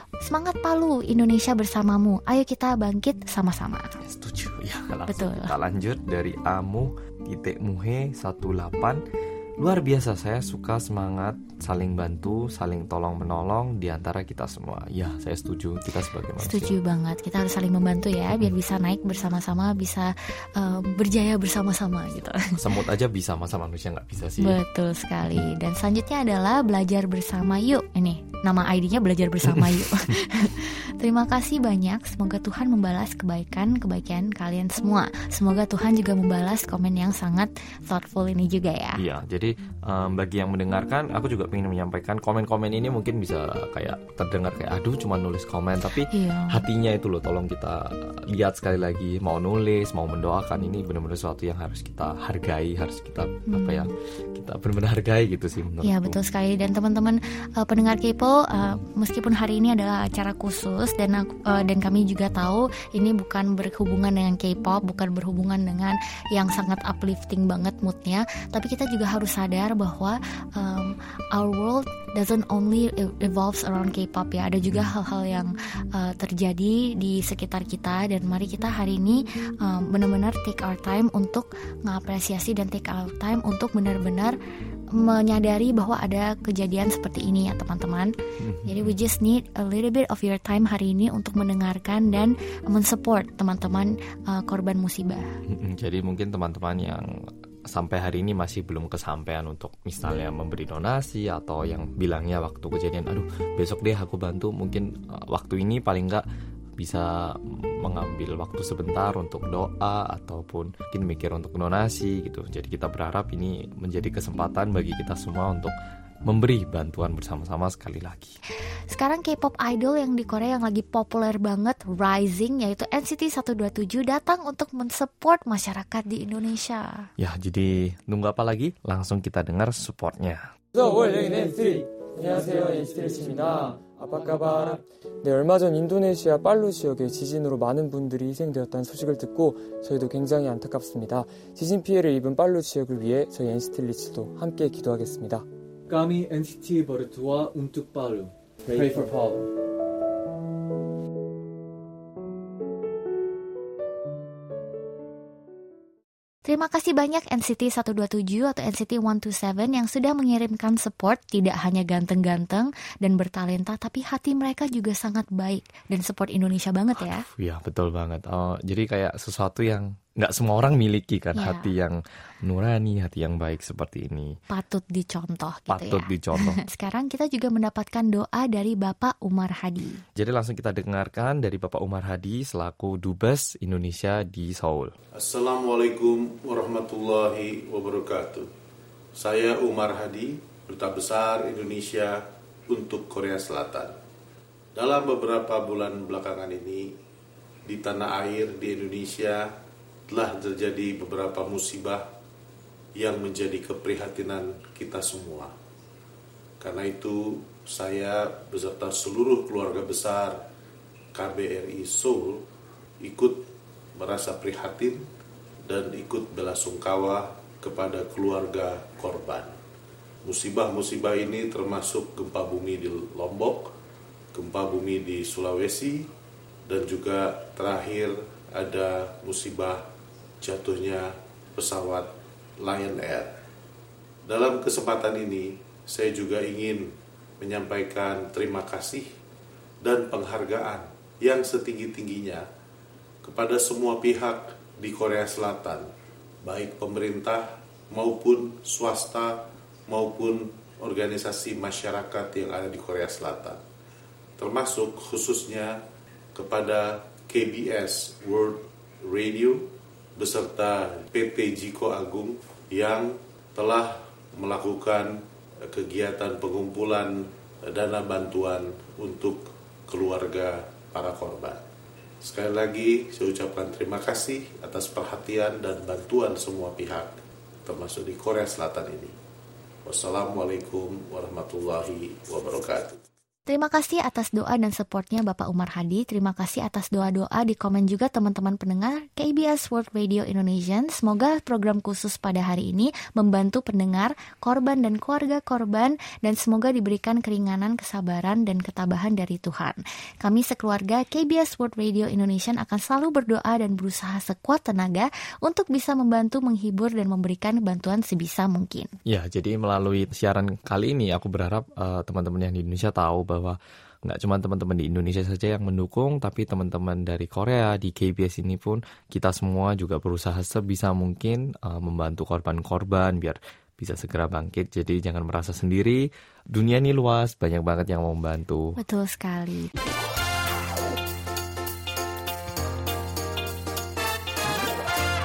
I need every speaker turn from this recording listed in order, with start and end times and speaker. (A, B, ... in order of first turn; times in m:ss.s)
0:00.2-0:04.0 A
0:04.0-0:09.0 B
0:05.1-0:05.5 A
0:09.6-0:16.8 B
0:16.4-0:22.6 A
0:22.6-0:24.6 B
0:24.4-0:39.0 A
0:29.4-0:30.1 B
0:39.0-0:56.2 B
0:46.1-0:46.6 A
0:53.5-0:53.9 A
0:55.8-1:24.3 A
1:24.9-1:28.1 A
1:28.4-1:29.0 B
1:28.6-1:35.3 A
1:35.4-1:37.1 B
1:37.7-1:46.2 B
1:46.8-1:55.7 B
1:56.2-1:58.4 B
1:58.9-2:07.1 A
2:07.2-2:10.5 B
2:10.7-2:25.4 C
2:25.9-2:29.4 D
2:28.7-2:29.3 C
2:36.4-2:47.2 A
2:47.0-2:54.4 B
2:51.4-2:51.7 A
2:54.5-3:00.0 A
2:55.7-2:56.6 B
3:00.2-3:04.9 B
3:05.2-3:08.5 E
3:09.1-3:14.0 E
3:14.7-3:17.0 E
3:17.6-3:19.5 E
3:20.1-3:22.1 E
3:23.0-3:25.5 E
3:26.6-3:30.4 E
3:31.1-3:32.4 E
3:33.0-3:35.0 E
3:35.6-3:39.6 E
3:40.2-3:43.7 E
3:44.3-3:46.1 E
3:46.7-3:49.8 E
3:50.4-3:53.3 E
3:54.2-3:59.1 E
3:59.8-4:02.4 E
4:03.2-4:05.9 E
4:06.4-4:13.6 E
4:14.4-4:15.8 E
4:16.3-4:31.6 E
4:32.2-4:37.1 E
4:37.6-4:39.1 E
4:39.8-4:43.0 E
4:43.5-5:08.9 A
5:09.0-5:28.8 B
5:28.8-5:29.7 A